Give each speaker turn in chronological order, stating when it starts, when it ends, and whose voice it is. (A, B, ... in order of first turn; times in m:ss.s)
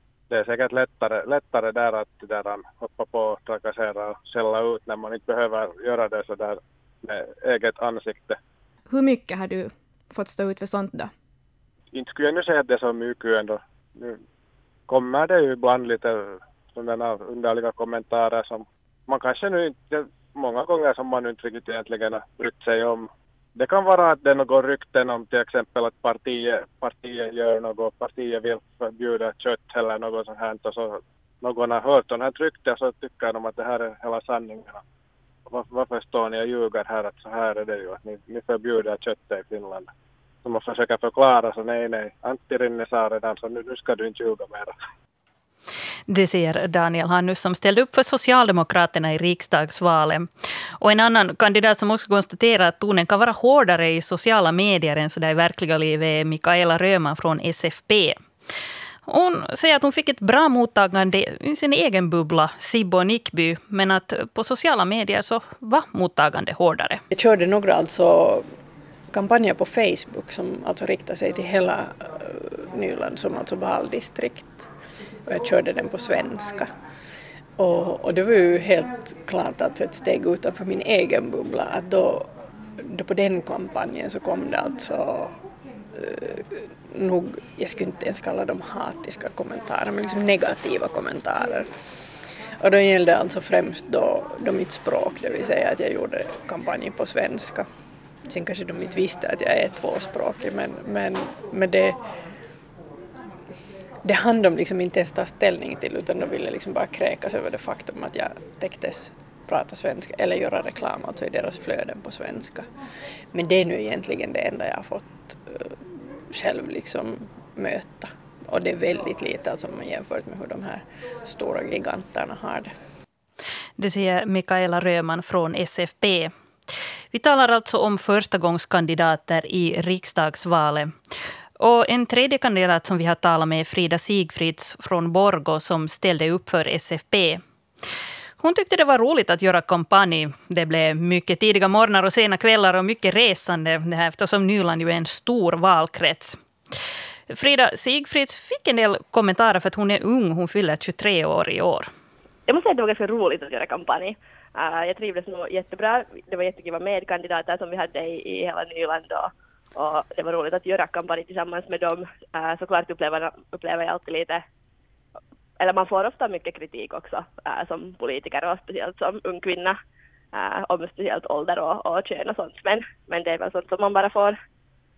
0:00.3-0:08.4 A
0:08.9-0:11.1 B
0:11.9-0:14.2 A
0:14.9-0:34.8 A
0:35.5-0:39.9 A
0:40.4-0:44.7 A
0:46.1-0:50.3 C
0:50.8-0:58.2 C
0:59.1-1:07.0 C
1:07.1-1:08.5 D
1:09.1-1:14.7 D
1:15.2-1:16.7 D
1:17.6-1:25.4 D
1:25.9-1:31.7 D
1:32.6-1:37.6 D
1:38.3-1:42.0 D
1:44.0-1:52.6 D
1:53.3-2:02.7 D
2:03.8-2:06.3 C
2:07.1-2:10.9 C
2:11.6-2:17.4 C
2:18.4-2:26.4 C
2:27.3-2:31.9 C
2:32.5-2:44.4 E
2:45.6-2:49.8 E
2:50.3-2:54.4 E